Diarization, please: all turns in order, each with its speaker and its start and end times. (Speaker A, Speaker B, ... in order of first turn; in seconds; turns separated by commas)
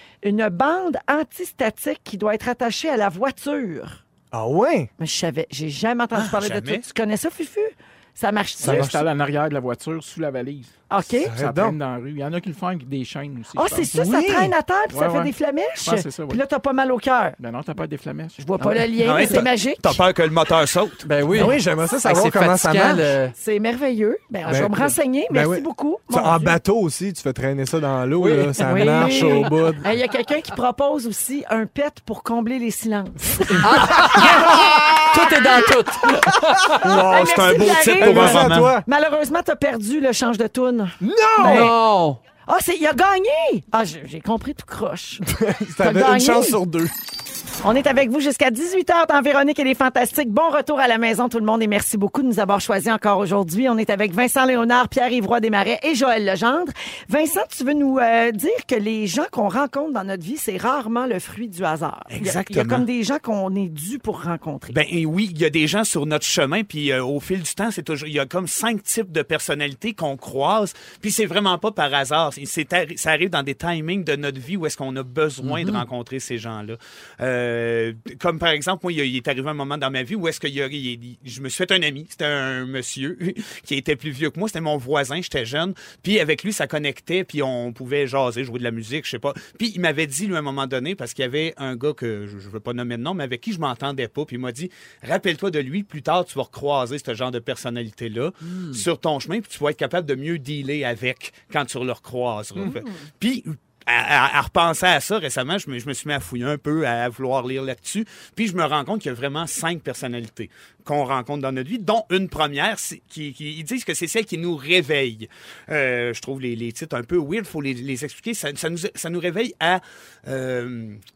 Speaker A: 0.2-4.0, Speaker B: 4.3-4.9, Speaker A: 5.0-9.0, Speaker C: 6.1-6.8, Speaker D: 8.6-10.7, Speaker B: 8.6-9.0, Speaker A: 10.9-11.3, Speaker B: 11.2-11.8, Speaker D: 11.3-13.9, Speaker A: 13.5-17.4, Speaker B: 13.9-14.5, Speaker D: 14.9-16.4, Speaker D: 17.4-18.4, Speaker A: 18.4-20.0, Speaker E: 18.6-19.3, Speaker C: 19.0-21.1, Speaker E: 21.0-23.3, Speaker B: 21.3-23.1, Speaker A: 23.4-26.6, Speaker B: 24.4-29.9, Speaker E: 28.2-29.5, Speaker A: 28.6-34.6, Speaker E: 33.6-36.8, Speaker B: 33.8-35.5, Speaker B: 36.6-38.8, Speaker C: 36.8-38.7, Speaker A: 37.1-41.7, Speaker B: 41.0-41.7, Speaker E: 41.4-42.2, Speaker A: 42.5-45.2, Speaker B: 45.2-46.9, Speaker A: 45.8-46.6, Speaker A: 47.6-64.8, Speaker C: 62.1-62.9, Speaker C: 64.7-121.0, Speaker E: 75.4-75.8, Speaker E: 98.5-98.8, Speaker A: 102.6-102.9